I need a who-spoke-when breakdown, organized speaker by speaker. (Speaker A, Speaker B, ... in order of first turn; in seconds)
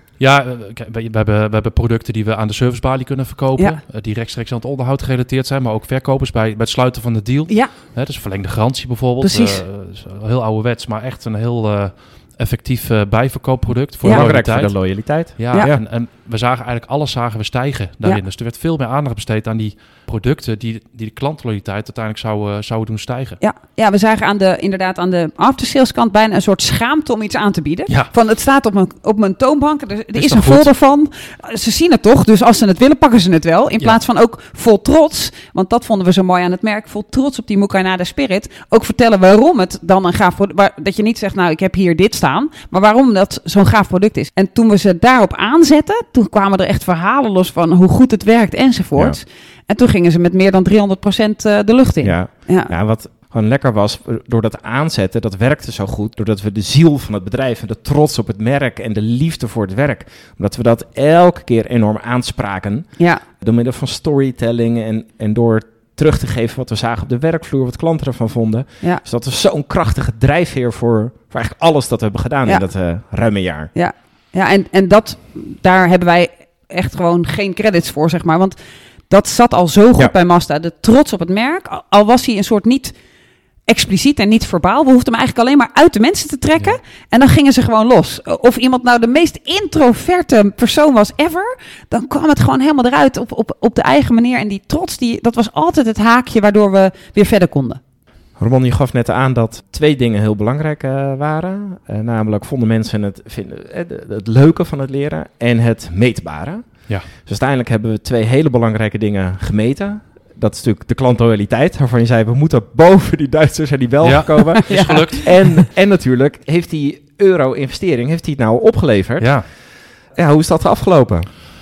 Speaker A: 0.2-14.7, 15.4-23.4, 30.1-30.7, 114.0-115.3, 119.2-119.4
Speaker B: 9.2-9.6, 23.4-52.7, 73.8-78.6, 79.1-82.9, 83.7-97.8, 114.6-115.3
Speaker C: 14.0-15.8, 52.0-73.7, 98.4-119.3, 120.2-121.3